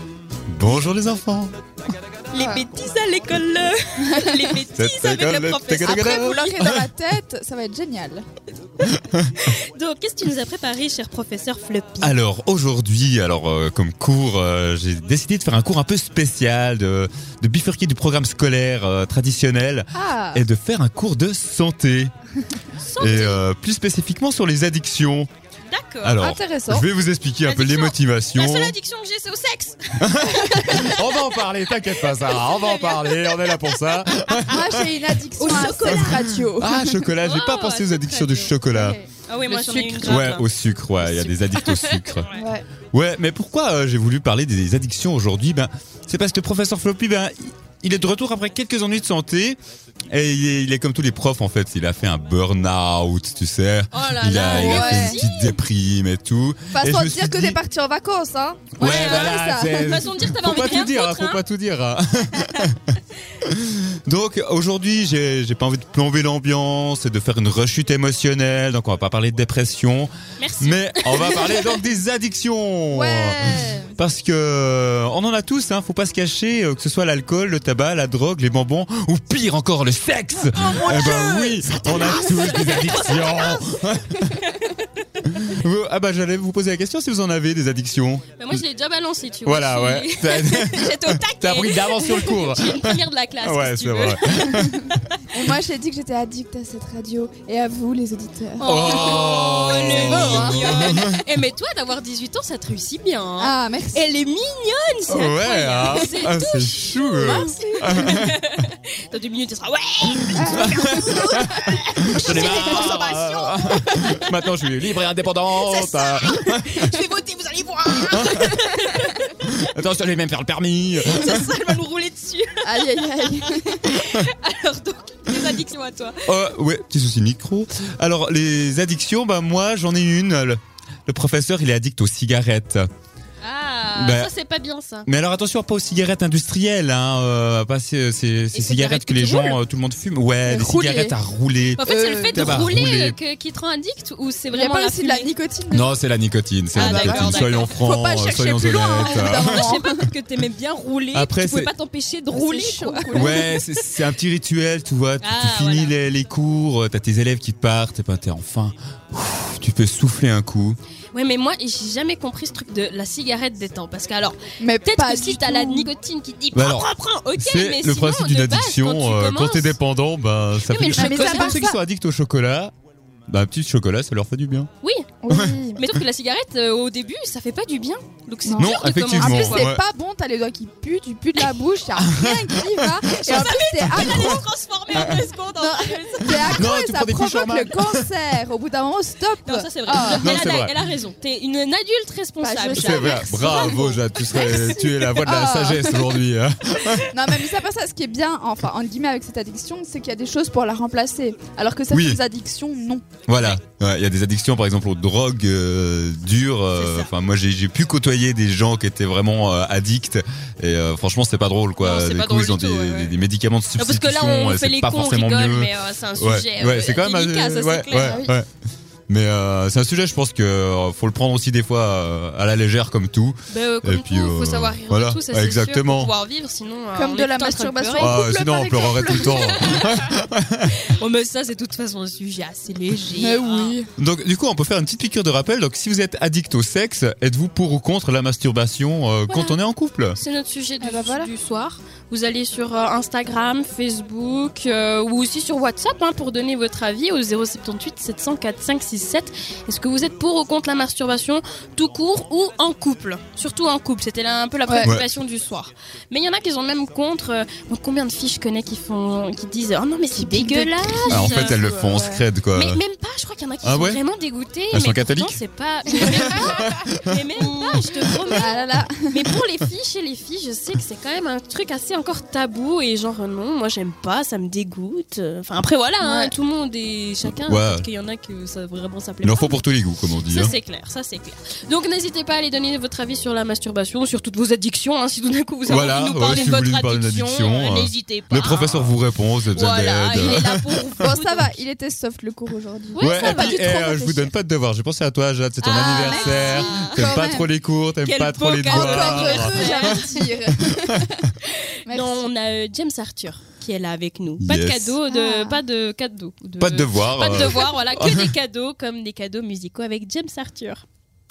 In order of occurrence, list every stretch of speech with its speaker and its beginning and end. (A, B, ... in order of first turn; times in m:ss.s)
0:00.5-0:01.5 A
0:02.3-0:06.6 B
0:02.3-0:02.6 C
0:04.0-0:04.6 C
0:04.7-0:06.9 A
0:05.8-0:08.2 C
0:08.8-0:09.3 A
0:09.4-0:12.2 B
0:12.0-0:22.1 A
0:19.9-0:20.4 C
0:22.8-0:23.4 B
0:23.0-0:25.3 A
0:25.7-0:26.2 B
0:26.0-0:28.8 A
0:26.2-0:26.9 C
0:27.4-0:31.1 B
0:30.0-0:34.9 A
0:32.0-0:33.7 B
0:34.5-0:37.0 C
0:35.4-0:36.2 B
0:35.6-0:42.3 A
0:37.2-0:40.5 B
0:41.0-0:42.4 B
0:42.3-0:42.6 C
0:42.9-0:49.6 A
0:50.1-0:57.6 A
0:53.9-0:55.6 B
0:54.5-0:55.2 C
0:56.7-1:00.0 C
0:58.8-1:24.5 A
0:58.8-1:01.4 B
1:10.4-1:11.8 B
1:12.9-1:14.0 C
1:20.5-1:24.9 B
1:25.2-1:28.6 A
1:28.4-1:35.2 B
1:29.4-1:35.0 A
1:35.3-1:39.2 C
1:38.6-1:54.8 B
1:38.6-1:41.2 A
1:40.0-1:40.8 C
1:43.4-1:44.1 C
1:45.1-1:48.7 A
1:47.2-1:48.0 C
1:50.1-1:57.0 A
1:50.3-1:51.1 C
1:52.4-1:52.8 C
1:55.5-1:59.5 B
1:58.0-1:58.7 A
1:59.4-2:01.6 A
2:01.0-2:06.2 B
2:02.6-2:03.9 C
2:06.2-2:12.9 A
2:13.4-2:15.1 B
2:13.9-2:14.3 A
2:15.0-2:23.2 A
2:18.5-2:19.6 B
2:20.4-2:21.1 C
2:21.8-2:25.3 B
2:21.8-2:22.5 C
2:24.5-2:25.9 C
2:25.7-2:29.7 A
2:26.7-2:27.8 B
2:26.8-2:30.1 C
2:28.6-2:33.7 B
2:31.1-2:31.7 A
2:32.3-2:33.5 C
2:33.1-2:40.8 A
2:35.2-2:35.9 B
2:41.1-2:49.8 B
2:44.6-2:45.9 C
2:46.5-2:52.7 A
2:50.6-2:51.6 B
2:50.9-2:51.8 C
2:53.3-2:54.7 A
2:54.8-2:55.2 B
2:55.2-2:55.8 C
2:55.3-2:56.0 A
2:55.8-2:59.7 B
2:58.4-3:04.4 C
2:58.6-2:59.8 A
3:02.0-3:03.0 A
3:03.0-3:06.6 B
3:03.8-3:05.3 A
3:05.6-3:10.4 C
3:06.3-3:08.1 A
3:09.4-3:15.2 B
3:10.0-3:10.7 A
3:12.4-3:16.3 C
3:12.7-3:17.2 A
3:17.0-3:23.2 C
3:21.9-3:22.2 A
3:23.3-3:38.5 A
3:23.3-3:23.6 B
3:26.7-3:27.1 B
3:31.8-3:33.1 B
3:33.8-3:38.2 B
3:38.0-3:38.4 C
3:39.1-3:46.1 A
3:43.5-3:48.2 B
3:46.9-3:49.5 C
3:48.0-3:50.7 A
3:49.0-3:50.1 B
3:50.8-3:53.8 B
3:53.2-3:53.9 C
3:54.0-4:00.2 A
4:00.1-4:21.6 B
4:00.8-4:01.3 C
4:14.7-4:14.9 C
4:14.8-4:15.1 A
4:20.1-4:22.2 C
4:21.0-4:22.8 A
4:22.5-4:39.6 B
4:23.6-4:24.0 A
4:24.7-4:25.4 A
4:25.9-4:27.0 A
4:27.4-4:29.3 C
4:36.0-4:36.3 C
4:37.4-4:37.8 A
4:39.2-4:40.5 A
4:40.2-4:51.5 B
4:45.7-4:51.2 A
4:50.2-4:54.3 C
4:52.9-4:53.7 B
4:53.0-5:01.3 A
4:55.6-4:57.1 B
4:55.8-4:57.5 C
4:58.0-5:00.3 B
4:58.7-5:01.3 C
5:01.4-5:10.8 B
5:01.8-5:02.2 C
5:04.4-5:05.0 A
5:05.1-5:05.6 C
5:06.6-5:08.3 A